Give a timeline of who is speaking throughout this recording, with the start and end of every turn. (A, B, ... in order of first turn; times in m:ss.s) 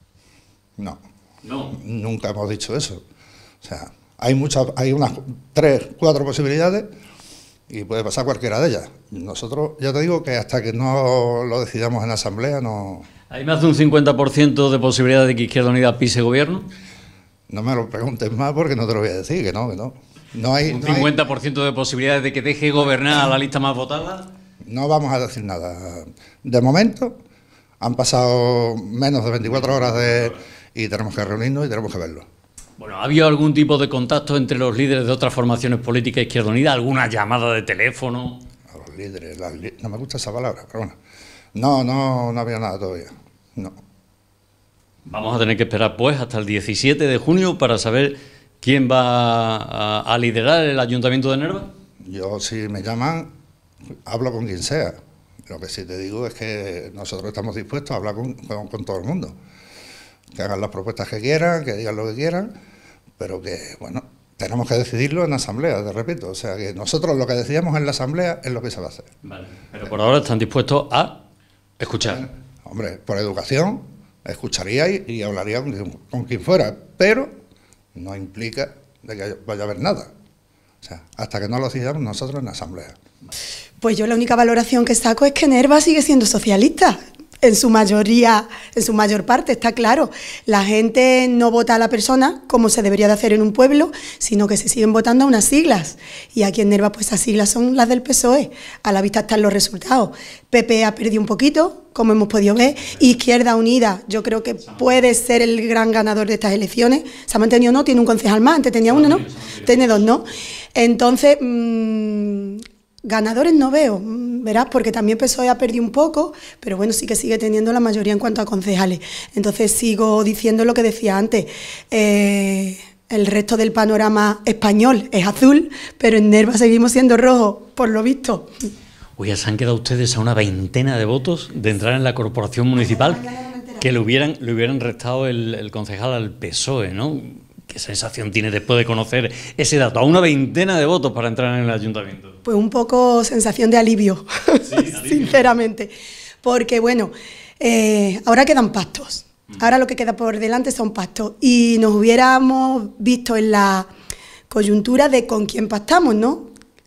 0:01.4-0:01.8 A
0:01.7-0:03.0 B
0:03.6-0:06.9 B
0:07.7-0:13.1 B
0:13.3-0:16.7 A
0:17.5-0:21.2 B
0:20.7-0:24.3 A
0:24.6-0:27.2 B
0:27.8-0:32.3 B
0:32.8-0:38.4 A
0:38.7-0:41.0 B
0:41.6-0:43.8 B
0:45.1-0:51.7 A
0:52.0-0:53.3 B
0:54.1-0:59.4 B
1:00.3-1:02.5 B
1:03.2-1:09.1 B
1:09.2-1:11.2 A
1:11.8-1:12.2 A
1:12.0-1:17.3 B
1:18.0-1:20.1 B
1:20.8-1:23.0 B
1:23.8-2:08.5 C
1:48.9-1:50.1 A
2:09.2-2:13.2 A
2:12.8-2:13.8 C
2:13.8-2:22.4 A
2:22.4-2:25.9 C
2:24.7-2:25.5 A
2:26.4-2:33.9 C
2:34.5-2:36.5 C